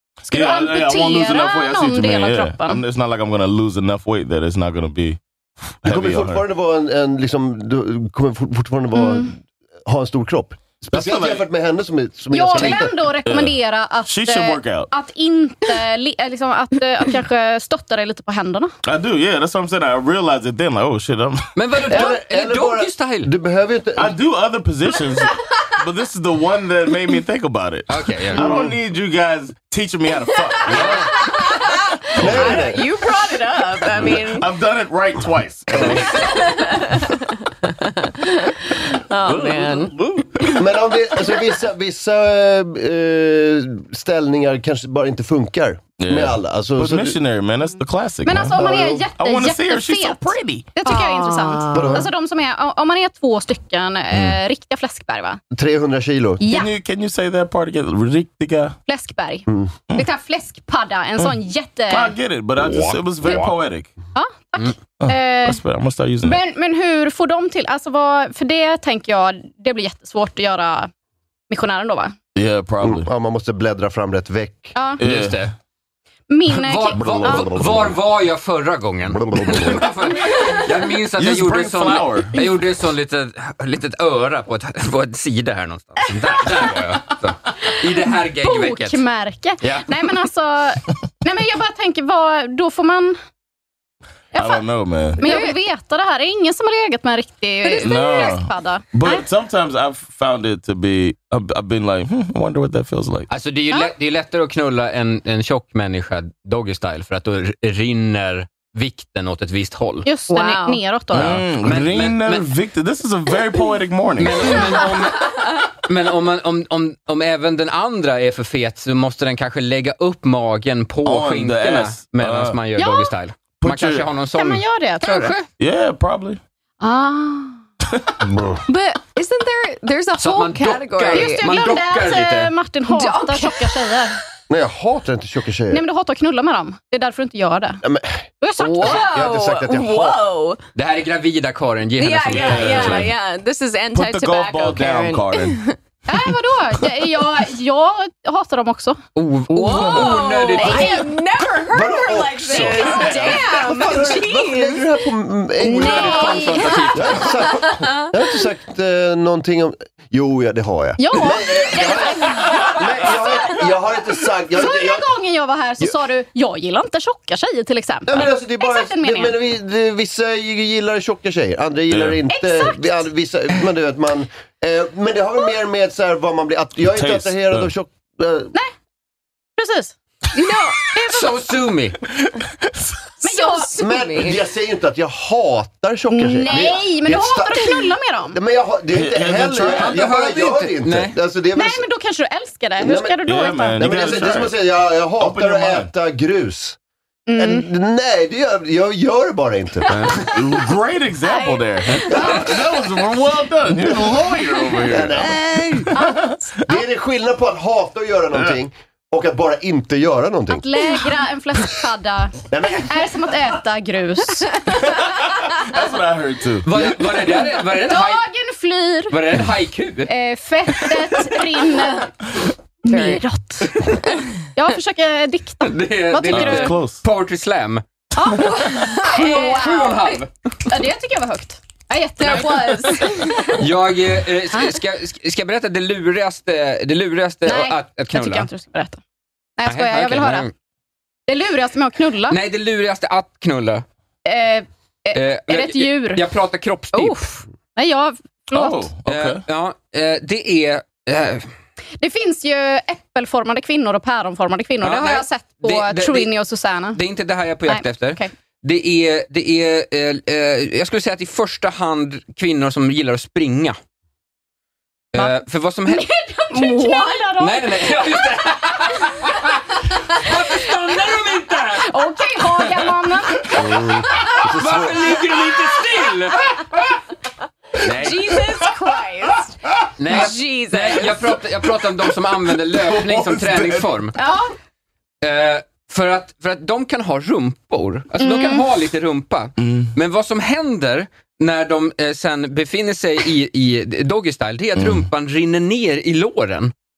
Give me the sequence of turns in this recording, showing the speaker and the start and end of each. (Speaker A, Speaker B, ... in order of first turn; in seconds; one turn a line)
Speaker A: 0.3-6.4
Speaker B: 0.3-2.8
Speaker C: 5.8-12.9
Speaker B: 9.0-9.2
Speaker A: 10.9-11.4
Speaker B: 12.3-18.7
Speaker A: 12.6-14.9
Speaker A: 18.9-21.4
Speaker D: 21.6-23.3
Speaker C: 21.9-24.1
Speaker A: 23.9-31.1
Speaker D: 27.9-28.5
Speaker C: 28.4-28.7
Speaker E: 30.5-34.5
Speaker D: 30.7-31.1
Speaker A: 32.1-32.6
Speaker C: 32.2-32.8
Speaker A: 33.9-36.2
Speaker C: 35.7-36.0
Speaker D: 35.8-36.4
Speaker E: 35.9-40.6
Speaker D: 39.2-40.2
Speaker C: 40.6-47.2
Speaker A: 46.0-50.8
Speaker B: 48.2-55.4
Speaker C: 48.5-49.0
Speaker E: 50.8-52.0
Speaker C: 51.7-52.1
Speaker A: 54.1-54.4
Speaker C: 55.5-56.4
Speaker B: 56.4-56.7
Speaker A: 56.5-58.8
Speaker B: 58.9-62.1
Speaker C: 59.5-59.7
Speaker A: 61.9-63.9
Speaker B: 64.1-65.6
Speaker A: 65.0-66.4
Speaker B: 66.2-70.9
Speaker B: 71.5-72.1
Speaker A: 72.3-73.1
Speaker C: 72.8-74.7
Speaker B: 74.7-75.0
Speaker A: 75.0-75.5
Speaker D: 75.0-75.5
Speaker B: 76.3-77.5
Speaker D: 76.6-89.0
Speaker A: 76.9-77.9
Speaker A: 81.2-82.4
Speaker B: 88.4-93.2
Speaker D: 89.6-90.0
Speaker B: 94.3-94.6
Speaker A: 94.3-95.2
Speaker B: 95.2-99.2
Speaker E: 95.2-95.6
Speaker E: 97.6-98.3
Speaker A: 97.8-103.3
Speaker D: 103.3-110.0
Speaker B: 110.0-111.4
Speaker E: 110.3-110.8
Speaker A: 111.1-114.8
Speaker D: 111.1-112.5
Speaker D: 114.2-115.3
Speaker E: 114.8-115.3
Speaker D: 115.8-125.5
Speaker A: 121.0-122.6
Speaker B: 122.8-123.1
Speaker A: 123.6-124.1
Speaker B: 124.3-125.3
Speaker A: 125.6-126.4
Speaker B: 126.8-127.6
Speaker C: 128.3-128.5
Speaker E: 128.7-131.8
Speaker D: 130.2-132.5
Speaker B: 131.1-134.2
Speaker E: 132.9-134.0
Speaker C: 134.5-135.8
Speaker B: 135.7-137.8
Speaker C: 137.8-140.3
Speaker B: 138.4-139.1
Speaker E: 138.6-140.6
Speaker D: 140.7-143.1
Speaker E: 142.0-145.8
Speaker A: 142.3-143.2
Speaker A: 143.9-145.6
Speaker B: 146.1-149.0
Speaker D: 149.2-151.1
Speaker E: 149.5-154.9
Speaker B: 150.6-151.1
Speaker C: 151.7-165.1
Speaker A: 155.6-157.3
Speaker E: 155.6-158.3
Speaker B: 156.1-156.6
Speaker B: 161.0-162.5
Speaker B: 164.5-169.3
Speaker C: 168.1-178.5
Speaker A: 171.9-172.2
Speaker B: 172.3-172.8
Speaker A: 176.9-177.7
Speaker B: 179.6-179.9
Speaker E: 180.3-180.8
Speaker B: 180.9-181.2
Speaker D: 181.1-182.0
Speaker A: 182.2-182.9
Speaker B: 183.2-183.7
Speaker E: 183.2-184.4
Speaker C: 183.8-191.8
Speaker B: 186.1-188.3
Speaker A: 188.9-190.0
Speaker D: 189.7-191.1
Speaker B: 191.5-194.2
Speaker C: 192.8-193.2
Speaker A: 193.2-194.6
Speaker C: 193.8-196.8
Speaker A: 195.2-195.9
Speaker B: 197.3-197.6
Speaker C: 197.3-200.1
Speaker D: 199.9-200.2
Speaker A: 200.3-206.4
Speaker E: 201.2-202.7
Speaker C: 202.0-202.4
Speaker C: 204.8-205.9
Speaker B: 205.9-206.2
Speaker C: 206.6-210.7
Speaker B: 210.5-214.5
Speaker C: 212.5-212.9
Speaker A: 214.8-216.9
Speaker D: 216.7-218.2
Speaker B: 217.8-219.2
Speaker D: 219.1-220.1
Speaker B: 220.1-222.1
Speaker B: 222.8-223.7
Speaker E: 222.9-223.2
Speaker B: 224.5-226.8
Speaker D: 225.6-227.8
Speaker A: 226.3-227.0
Speaker B: 228.2-229.6
Speaker E: 228.4-230.2
Speaker D: 229.0-230.3
Speaker B: 230.7-233.4
Speaker E: 232.2-233.6
Speaker D: 233.6-238.5
Speaker B: 234.5-234.8
Speaker B: 237.4-239.0
Speaker B: 239.6-240.5
Speaker D: 239.7-240.5
Speaker B: 241.3-242.4
Speaker D: 242.3-243.8
Speaker B: 244.2-246.2
Speaker D: 245.1-247.2
Speaker B: 246.9-248.9
Speaker A: 248.5-249.4
Speaker D: 249.1-251.5
Speaker B: 252.0-257.0
Speaker D: 254.8-256.3
Speaker D: 256.9-263.8
Speaker B: 257.7-258.3
Speaker D: 265.1-266.1
Speaker B: 265.1-268.0
Speaker E: 266.5-267.3
Speaker D: 267.4-269.5
Speaker D: 270.1-271.9
Speaker B: 271.9-273.9
Speaker C: 273.6-275.1
Speaker D: 274.4-276.4
Speaker D: 277.8-278.3
Speaker E: 277.8-279.6
Speaker D: 280.0-284.1
Speaker E: 280.1-281.3
Speaker A: 282.7-283.9
Speaker B: 284.2-284.5
Speaker D: 285.2-296.7
Speaker B: 288.2-288.6
Speaker A: 289.6-289.9
Speaker A: 294.8-295.1